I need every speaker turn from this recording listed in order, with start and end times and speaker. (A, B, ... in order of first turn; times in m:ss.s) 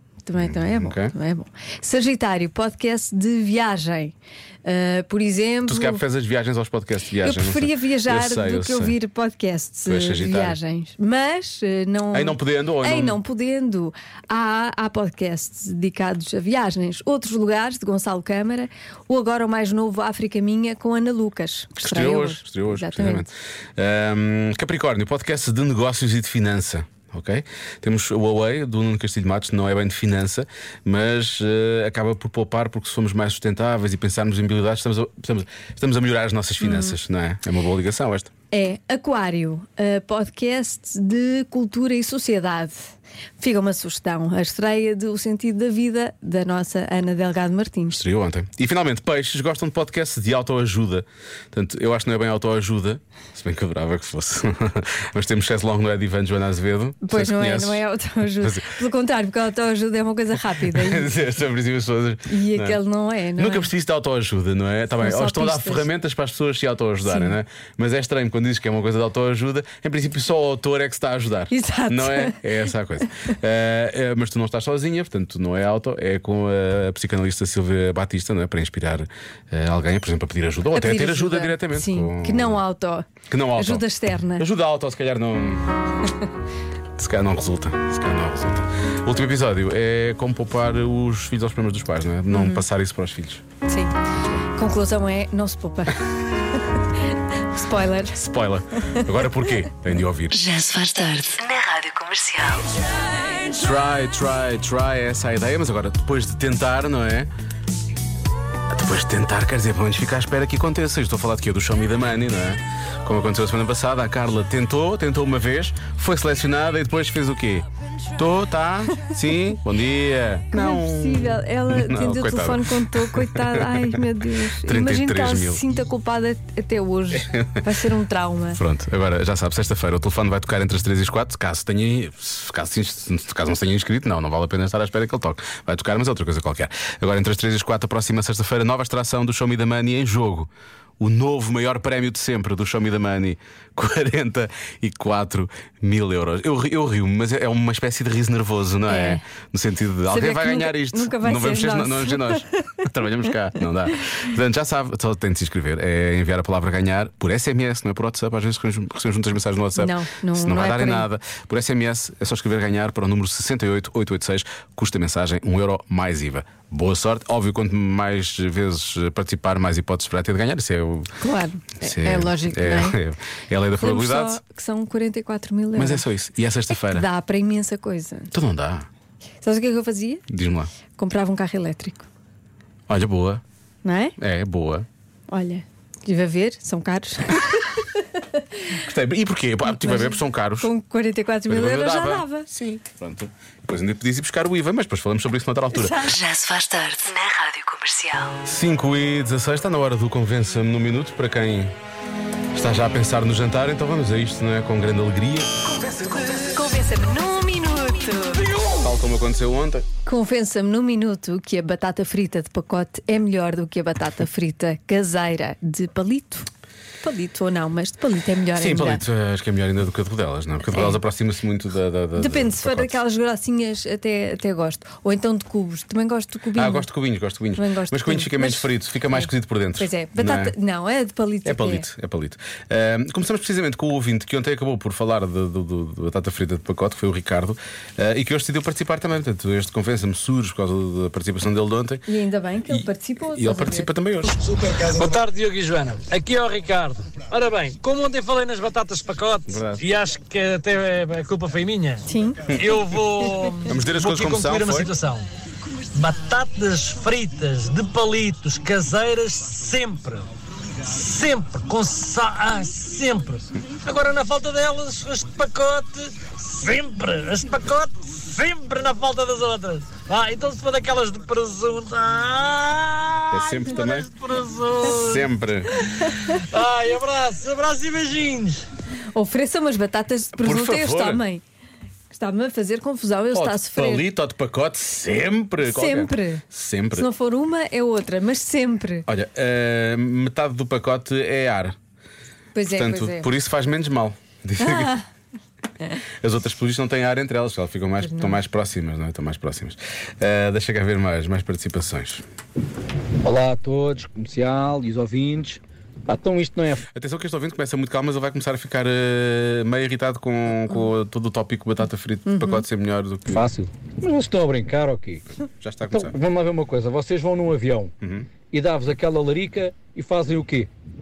0:00.3-0:06.0 A
0:00.4-0:01.1 B
0:05.7-0:08.9 B
0:07.2-0:23.2 A
0:09.8-0:10.6 B
0:12.1-0:13.2 B
0:21.8-0:38.3 B
0:36.6-0:36.9 A
0:38.5-0:42.9 A
0:43.4-0:48.0 A
0:47.9-0:57.8 B
0:57.0-1:01.1 A
0:58.4-0:58.7 B
1:00.7-1:02.8 B
1:02.3-1:03.7 A
1:03.4-1:22.6 B
1:05.0-1:05.9 A
1:07.0-1:07.4 A
1:11.5-1:12.4 A
1:20.7-1:24.4 A
1:23.3-1:23.8 B
1:24.4-1:25.7 B
1:27.0-1:33.4 B
1:32.3-1:32.6 A
1:33.7-1:33.9 A
1:34.6-1:36.0 A
1:36.5-1:36.8 A
1:37.5-1:38.2 A
1:38.2-1:40.4 B
1:38.9-1:39.1 A
1:40.3-1:42.8 C
1:43.5-1:47.3 B
1:48.7-1:57.6 B
1:58.2-2:04.0 B
2:00.5-2:08.6 A
2:04.6-2:05.7 B
2:07.1-2:07.6 B
2:08.6-2:51.1 B
2:28.9-2:29.2 A
2:30.1-2:32.8 A
2:39.8-2:41.1 A
2:51.2-2:53.0 A
2:51.8-2:54.4 B
2:53.8-2:56.0 A
2:55.8-2:57.1 B
2:56.7-2:58.3 A
2:58.3-2:58.9 B
2:59.4-3:00.2 A
3:00.3-3:00.7 B
3:01.0-3:02.0 A
3:02.9-3:03.4 B
3:03.8-3:04.2 A
3:04.2-3:04.8 B
3:05.3-3:08.7 A
3:08.8-3:10.7 B
3:09.7-3:12.5 A
3:11.5-3:16.0 B
3:15.7-3:16.1 A
3:16.0-3:18.4 C
3:18.4-3:21.7 B
3:22.5-3:25.9 B
3:26.3-3:28.5 A
3:28.6-3:29.8 B
3:30.0-3:36.5 A
3:37.0-3:39.0 A
3:38.6-3:42.9 B
3:40.7-3:41.0 A
3:42.2-3:46.9 A
3:46.6-3:50.5 B
3:47.6-3:51.8 A
3:51.4-4:02.1 B
4:02.1-4:03.9 A
4:02.7-4:04.4 B
4:04.3-4:15.2 D
4:09.5-4:09.8 B
4:12.0-4:12.4 A
4:13.6-4:14.9 B
4:15.9-4:20.3 D
4:20.8-4:38.6 D
4:33.3-4:34.1 B
4:35.0-4:35.7 B
4:39.1-4:41.4 A
4:40.4-4:41.2 B
4:42.1-4:44.0 A
4:43.3-4:47.1 B
4:45.6-4:46.4 A
4:46.9-4:49.0 A
4:49.1-4:51.8 B
4:52.5-4:53.3 A
4:52.7-4:55.0 B
4:54.6-4:55.0 A
4:56.2-5:02.2 B
4:58.0-4:58.4 A
5:03.2-5:06.8 E
5:06.9-5:13.4 B
5:12.2-5:12.6 A
5:13.3-5:15.2 E
5:15.6-5:16.2 B
5:15.9-5:17.9 E
5:18.0-5:18.3 B
5:18.5-5:20.7 E